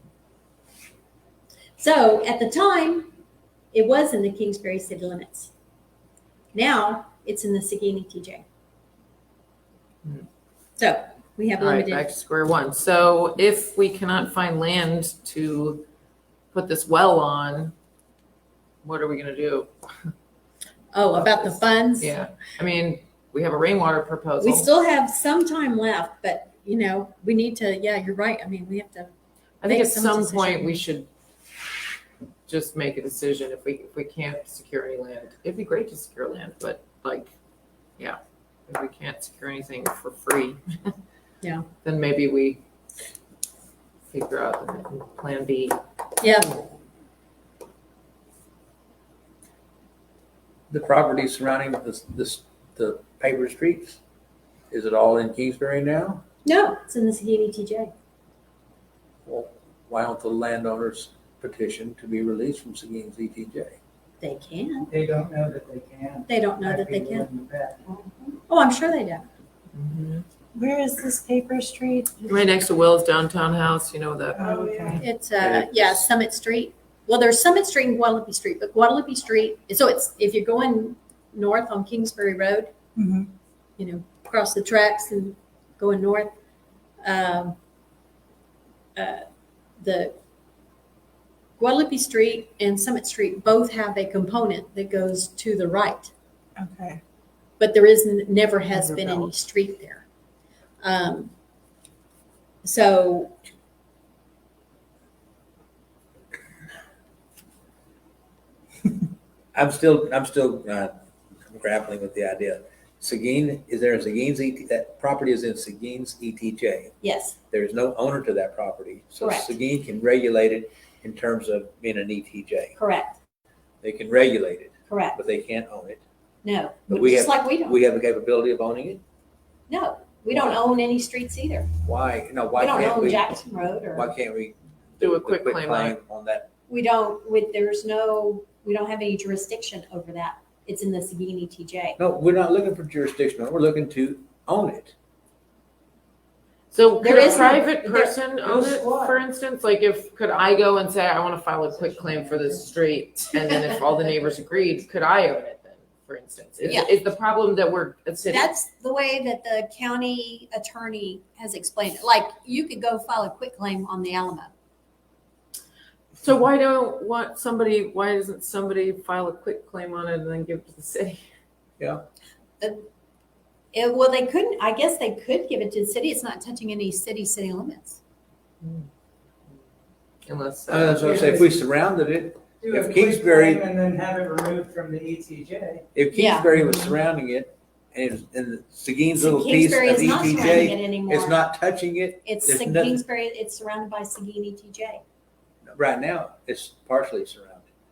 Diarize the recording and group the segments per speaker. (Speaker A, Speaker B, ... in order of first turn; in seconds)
Speaker A: 1.8-3.1, 3.7-5.5, 6.5-8.4, 10.8-12.1, 20.9-22.2, 24.4-29.1, 29.7-30.8, 41.4-41.7, 46.2-46.6, 56.5-57.9, 64.2-64.9, 66.3-67.3, 67.9-69.3, 75.0-82.7, 83.8-86.3, 87.0-87.5, 89.0-89.2, 89.8-90.1, 91.6-96.1, 97.6-100.0, 100.8-101.3, 102.6-103.3, 117.0-117.4, 119.2-119.5, 122.8-123.2, 124.9-125.2, 126.4-127.8, 129.7-131.7, 132.6-134.1, 136.7-142.0, 147.0-148.2, 158.3-164.5, 172.6-172.8, 173.7-178.0, 186.1-186.8, 189.2-191.4, 192.2-195.0
Speaker B: 11.6-15.9, 16.5-17.8, 18.8-19.7, 22.0-24.7, 29.6-31.1, 32.5-37.3, 38.0-40.9, 41.8-42.6, 44.1-45.8, 69.8-70.2, 72.2-74.4, 135.0-136.0, 146.7-158.5, 166.2-171.2, 178.6-178.9, 180.2-181.4
Speaker C: 50.7-54.0, 54.7-56.2, 59.3-63.8, 75.4-76.1, 109.5-111.0, 111.5-116.9, 117.5-122.8, 123.8-126.0, 126.9-129.0, 131.8-133.2, 133.9-136.5, 142.0-144.9, 171.8-172.0, 180.7-183.7, 185.9-193.0, 195.7-197.7
Speaker D: 64.9-67.8, 74.4-75.0, 148.5-149.1, 181.0-181.4, 182.6-185.8
Speaker E: 70.5-72.1, 74.4-75.0, 83.0-83.3, 96.7-97.0